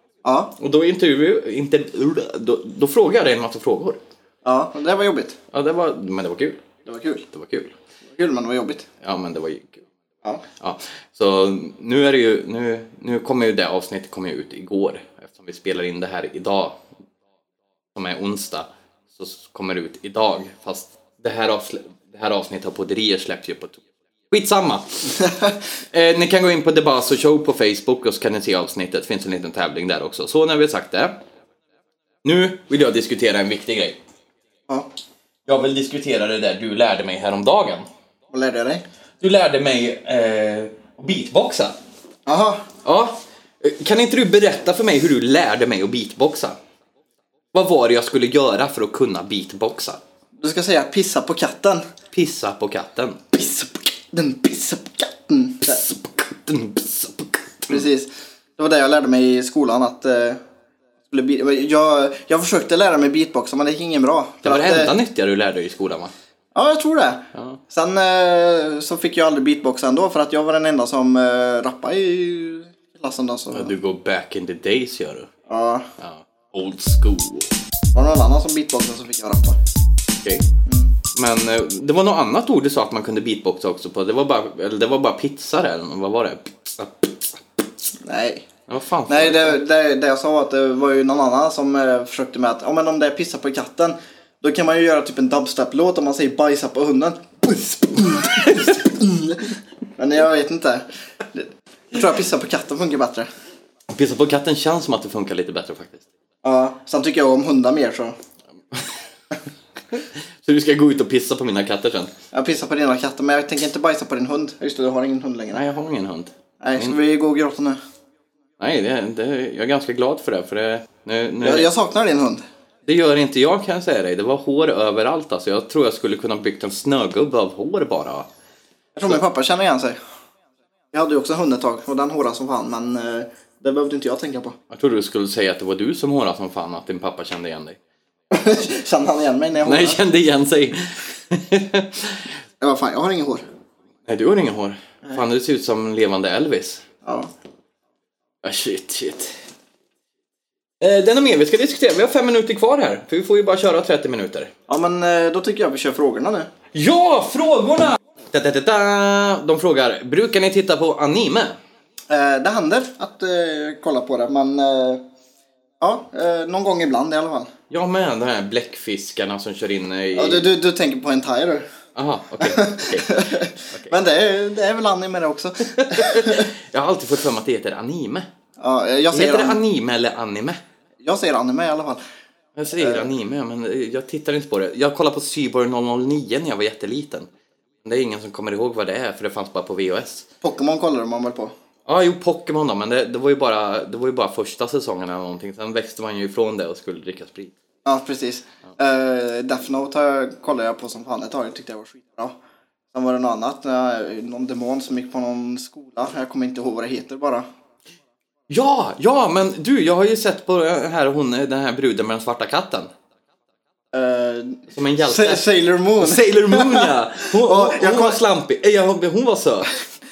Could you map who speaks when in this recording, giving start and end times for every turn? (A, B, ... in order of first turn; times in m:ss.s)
0:00.2-0:00.5 A
0:00.6-0:04.0 B
0:04.4-0:05.4 A
0:05.5-0:06.6 B
0:06.9-0:07.2 A
0:07.3-0:07.7 B
0:08.1-0:08.9 A
0:09.0-0:09.8 B
0:10.6-0:16.8 B
0:18.0-0:25.2 B
0:25.9-0:31.2 B
0:32.2-0:34.0 B
0:35.5-0:37.9 B
0:38.3-0:38.8 A
0:39.2-0:41.8 B
0:42.3-0:42.7 A
0:42.8-0:46.6 B
0:47.5-0:50.0 B
0:50.4-0:51.8 A
0:52.1-0:53.2 B
0:53.3-0:55.8 A
0:55.6-0:57.8 B
0:57.7-1:00.4 A
1:01.1-1:04.9 A
1:04.4-1:06.1 B
1:06.6-1:13.7 A
1:07.4-1:07.6 B
1:13.5-1:15.3 B
1:15.5-1:15.9 A
1:16.0-1:17.5 B
1:17.9-1:19.6 A
1:20.7-1:20.9 A
1:21.1-1:27.4 B
1:28.0-1:28.5 A
1:28.7-1:29.6 B
1:29.1-1:43.3 A
1:43.9-1:46.1 B
1:46.4-1:48.2 A
1:50.0-1:52.1 B
1:52.3-1:55.6 A
1:55.5-1:57.0 B
1:56.6-1:57.8 A
1:58.6-2:01.7 B
2:01.4-2:02.4 A
2:02.8-2:08.3 B
2:09.0-2:10.0 A
2:10.9-2:14.6 A
2:14.7-2:17.8 B
2:18.3-2:20.0 A
2:19.6-2:22.3 B
2:22.6-2:23.4 A
2:24.1-2:26.8 B
2:27.0-2:27.3 A
2:28.4-2:29.4 B
2:30.8-2:34.5 B
2:34.7-2:36.5 A
2:36.7-2:41.6 B
2:42.1-2:45.0 A
2:45.8-2:47.5 A
2:47.7-2:50.5 B
2:50.2-2:51.7 A
2:52.0-2:53.9 B
2:52.4-2:56.5 A
2:55.7-2:58.3 B
2:58.6-2:59.6 A
2:59.1-3:00.6 B
3:01.0-3:02.0 A
3:02.6-3:07.3 B
3:02.8-3:03.1 A
3:07.8-3:10.3 B
3:10.4-3:11.5 A
3:11.9-3:17.5 B
3:17.8-3:22.4 A
3:22.9-3:27.4 A
3:28.5-3:32.9 B
3:33.9-3:38.2 A
3:34.7-3:35.5 B
3:36.0-3:39.8 B